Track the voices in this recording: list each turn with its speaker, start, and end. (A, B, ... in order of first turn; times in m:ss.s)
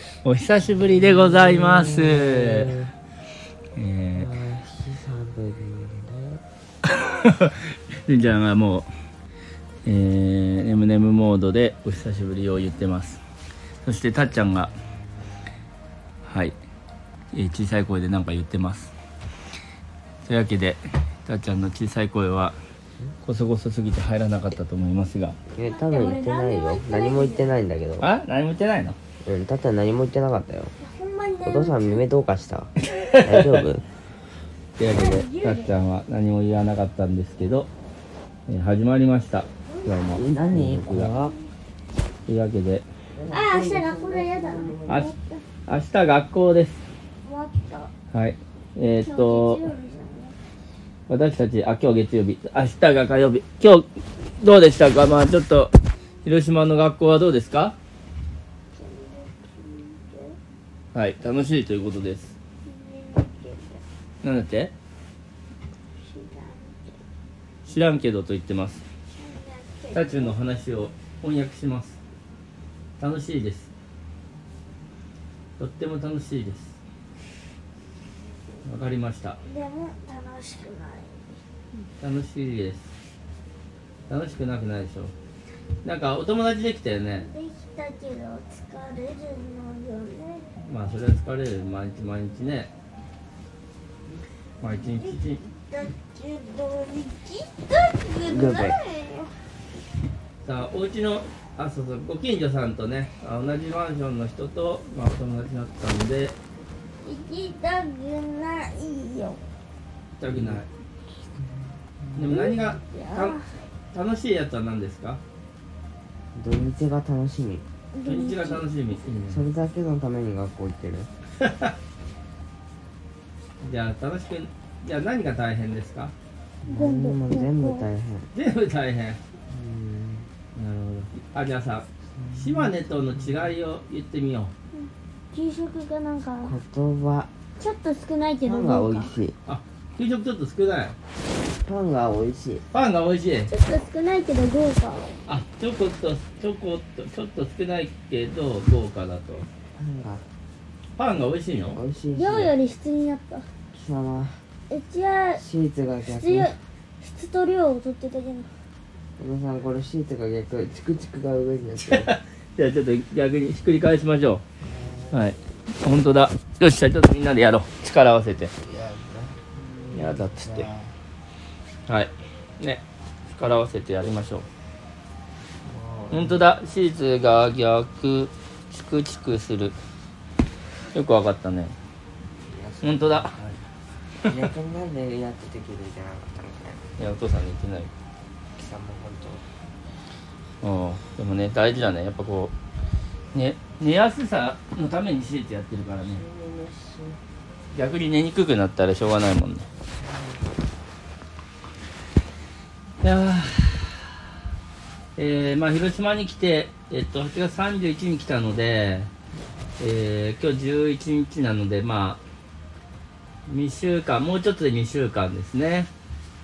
0:00.2-0:02.8 A
0:00.8-0:02.9 B
0:03.8-0:04.3 A
0:04.1-0:06.4 B
0:06.9-0:08.9 A
0:09.8-0:13.2 A
0:13.8-0:14.7 A
0:16.3-0:16.6 A
0:17.3-0:18.9 A
0:20.2-0:22.6 A
0:23.2-0:25.4 A
0:25.5-0:28.1 B
0:25.6-0:27.5 C
0:28.0-0:29.0 A
0:29.2-0:30.7 B
0:30.8-0:32.0 C
0:31.4-0:33.8 B
0:32.9-0:33.6 A
0:34.8-0:37.7 A
0:34.9-0:35.8 C
0:38.5-0:41.1 A
0:39.6-0:40.4 C
0:40.1-0:41.4 B
0:41.1-0:41.5 C
0:42.3-0:42.9 A
0:43.1-0:45.1 B
0:43.3-0:45.4 C
0:44.9-0:45.1 A
0:45.7-0:46.8 A
0:47.2-0:47.9 C
0:48.1-0:49.7 A
0:49.0-0:50.4 C
0:51.1-0:53.9 A
0:54.4-0:55.7 A
0:56.2-0:57.8 A
0:58.7-1:00.4 C
1:00.9-1:02.4 A
1:02.6-1:03.8 C
1:04.2-1:04.7 A
1:06.0-1:07.0 C
1:07.6-1:08.8 A
1:09.1-1:10.4 C
1:09.9-1:12.0 A
1:13.0-1:13.7 A
1:15.6-1:16.8 A
1:18.6-1:19.4 A
1:19.4-1:21.4 C
1:22.0-1:22.9 A
1:24.1-1:25.1 A
1:25.8-1:27.3 A
1:27.2-1:30.5 C
1:30.6-1:32.7 A
1:34.6-1:35.4 A
1:34.8-1:39.5 C
1:38.2-1:38.8 B
1:40.4-1:46.4 A
1:47.0-1:49.5 C
1:50.2-1:50.7 A
1:50.3-1:52.8 B
1:52.2-1:53.4 A
1:52.3-1:53.6 C
1:53.9-1:55.2 A
1:56.4-1:57.6 B
1:57.9-1:58.7 C
1:58.0-1:59.5 A
1:59.3-2:01.1 B
2:01.4-2:01.7 A
2:03.6-2:06.1 A
2:06.6-2:08.3 B
2:06.7-2:07.9 C
2:08.3-2:09.2 A
2:09.5-2:10.3 B
2:10.6-2:14.5 A
2:12.1-2:13.5 B
2:14.7-2:16.6 C
2:16.4-2:17.3 B
2:17.6-2:19.1 C
2:18.4-2:19.4 B
2:19.5-2:21.0 A
2:21.6-2:22.7 B
2:22.7-2:23.5 A
2:23.5-2:25.2 C
2:25.3-2:29.5 A
2:29.8-2:30.2 B
2:31.0-2:31.8 A
2:31.7-2:32.6 B
2:32.1-2:33.5 C
2:33.7-2:34.4 B
2:34.7-2:35.4 C
2:35.4-2:36.5 B
2:36.1-2:38.5 C
2:39.2-2:42.1 B
2:41.8-2:44.4 A
2:44.6-2:45.3 B
2:45.1-2:48.5 A
2:48.6-2:51.0 B
2:49.9-2:50.7 A
2:51.9-2:54.5 A
2:55.6-2:56.5 B
2:56.1-2:59.8 A
3:00.9-3:01.8 A
3:02.4-3:03.6 B
3:02.8-3:03.4 A
3:04.2-3:07.0 B
3:07.0-3:07.9 A
3:08.6-3:09.4 B
3:10.6-3:12.5 A
3:13.3-3:16.2 A
3:16.0-3:17.2 B
3:17.7-3:19.7 A
3:19.9-3:20.6 B
3:23.0-3:24.0 A
3:25.2-3:29.1 A
3:29.8-3:32.2 A
3:33.5-3:35.9 A